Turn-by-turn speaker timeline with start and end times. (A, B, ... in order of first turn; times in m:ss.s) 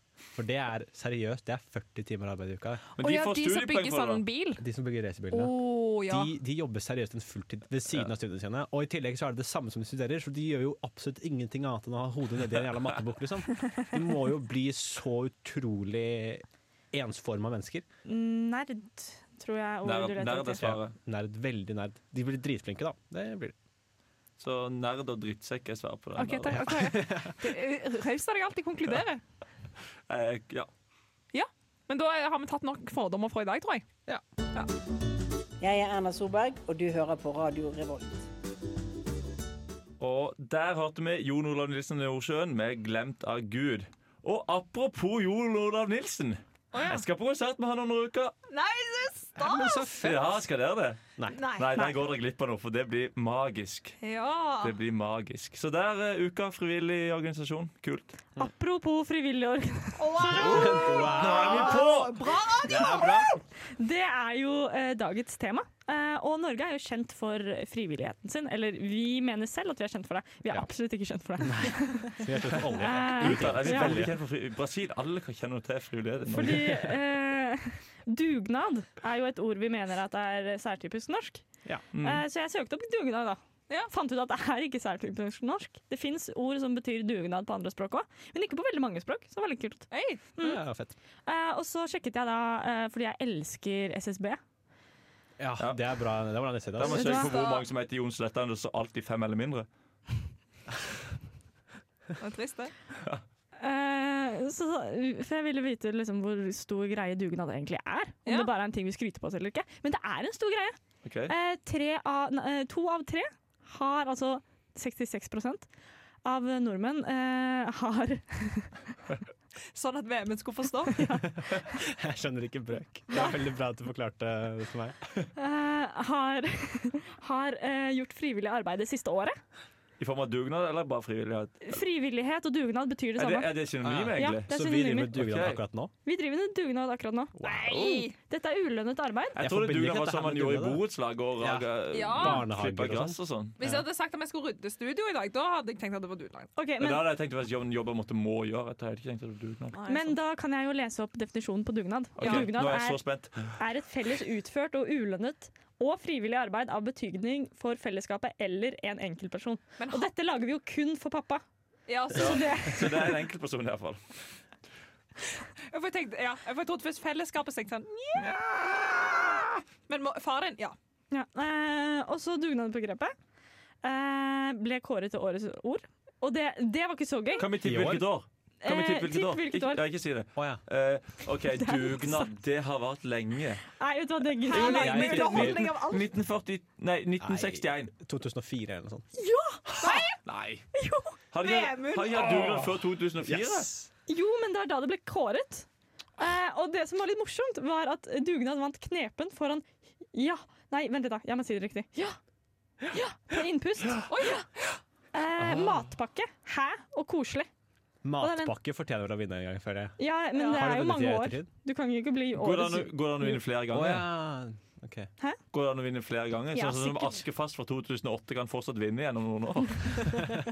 0:00.3-0:02.8 A
0:03.0-0:04.2 B
0:03.0-0:04.6 C
0:04.6-0:17.9 A
0:05.3-0:06.3 C
0:18.0-0:20.7 D
0:19.8-0:21.0 B
0:20.6-0:23.6 A
0:24.4-0:26.7 B
0:26.2-0:29.2 C
0:26.4-0:27.5 A
0:30.1-0:30.7 B
0:31.3-0:33.9 C
0:35.6-0:38.2 E
0:40.0-0:48.3 B
0:46.7-0:47.0 C
0:48.5-0:49.9 C
0:49.4-0:50.4 A
0:50.0-0:54.0 B
0:51.3-0:51.9 C
0:54.0-0:54.7 C
0:54.6-0:58.1 B
0:58.4-1:00.4 D
1:00.0-1:03.2 C
1:00.3-1:01.9 A
1:00.8-1:02.3 B
1:02.7-1:03.4 A
1:03.8-1:12.2 D
1:11.4-1:14.2 A
1:12.8-1:14.1 D
1:13.1-1:16.8 B
1:16.3-1:30.6 D
1:21.9-1:22.2 B
1:29.9-1:30.2 C
1:30.4-1:30.9 A
1:31.3-1:34.4 D
1:35.4-1:37.1 A
1:35.6-1:35.9 B
1:36.8-1:39.7 B
1:36.9-1:37.6 C
1:36.9-1:37.3 D
1:42.2-1:42.7 C
1:43.6-1:50.8 D
1:51.0-1:51.3 B
1:51.3-1:55.7 D
1:56.2-1:58.8 D
1:59.8-2:01.0 C
2:01.0-2:01.3 D
2:01.4-2:05.0 A
2:05.4-2:09.4 D
2:10.0-2:11.8 B
2:11.6-2:15.2 D
2:13.2-2:14.5 B
2:13.8-2:15.9 A
2:15.1-2:15.6 B
2:16.0-2:19.4 D
2:17.4-2:17.9 A
2:17.4-2:18.2 C
2:19.4-2:23.6 B
2:19.4-2:20.8 A
2:21.4-2:23.9 A
2:21.9-2:22.4 C
2:23.6-2:26.5 C
2:26.6-2:27.1 D
2:26.8-2:29.8 B
2:29.7-2:30.1 C
2:29.9-2:33.0 D
2:32.2-2:33.6 B
2:33.5-2:41.4 D
2:39.8-2:40.1 C
2:41.9-2:42.7 C
2:42.1-2:43.0 D
2:42.1-2:44.0 B
2:45.7-2:50.8 C
2:51.1-2:53.1 D
2:53.8-2:57.5 D
2:57.4-3:03.6 B
2:57.6-2:58.2 A
2:58.6-2:59.8 D
3:00.4-3:00.6 A
3:01.5-3:02.3 D
3:03.8-3:05.3 D
3:04.4-3:06.1 C
3:04.5-3:05.7 A
3:04.8-3:07.9 B
3:07.2-3:09.1 A
3:09.2-3:09.9 D
3:09.8-3:10.2 C
3:10.2-3:10.6 B
3:10.7-3:11.2 D
3:11.3-3:13.7 B
3:11.4-3:12.6 C
3:12.3-3:12.7 A
3:13.2-3:13.9 A
3:14.1-3:22.2 D
3:22.9-3:24.3 D
3:24.1-3:24.4 C
3:25.1-3:27.5 D
3:25.4-3:25.9 B
3:28.0-3:30.0 A
3:28.2-3:28.5 D
3:30.0-3:33.4 D
3:30.4-3:30.7 C
3:30.5-3:31.5 A
3:32.3-3:34.1 B
3:33.7-3:35.1 A
3:35.5-3:40.2 B
3:36.5-3:37.2 D